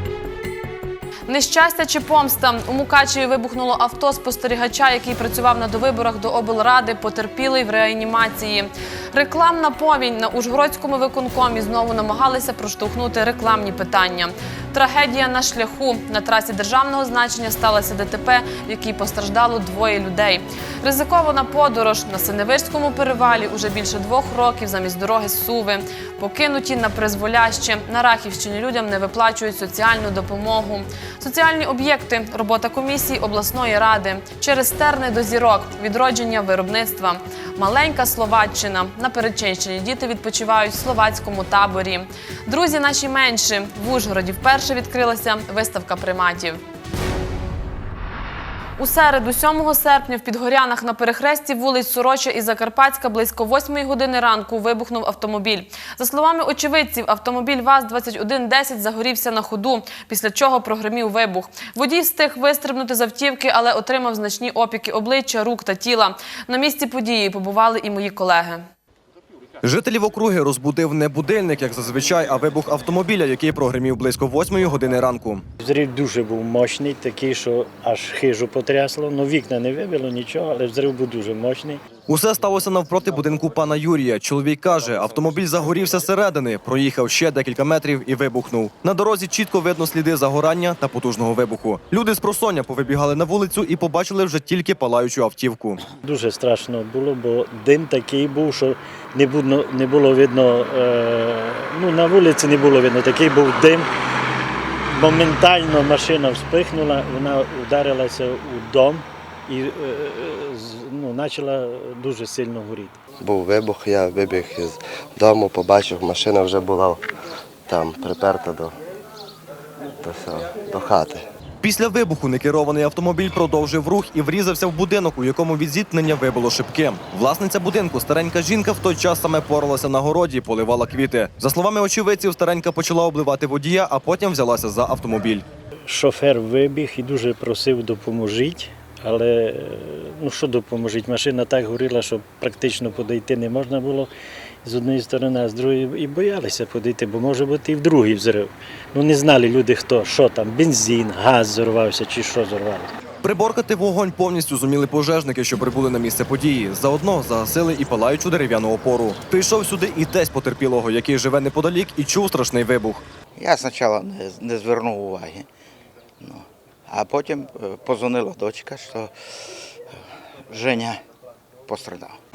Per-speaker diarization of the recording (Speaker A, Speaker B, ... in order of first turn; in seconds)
Speaker A: 1.3-46.6, 48.8-68.7
Speaker B: 69.6-75.5, 82.1-95.8, 121.6-135.4, 153.2-163.0
Speaker C: 75.6-81.8, 96.0-103.9, 105.0-113.0, 135.9-144.1, 144.6-152.9
Speaker D: 113.2-117.0, 117.7-118.8, 120.0-121.2
Speaker E: 163.4-165.5, 166.2-169.1, 170.5-171.0, 171.7-172.2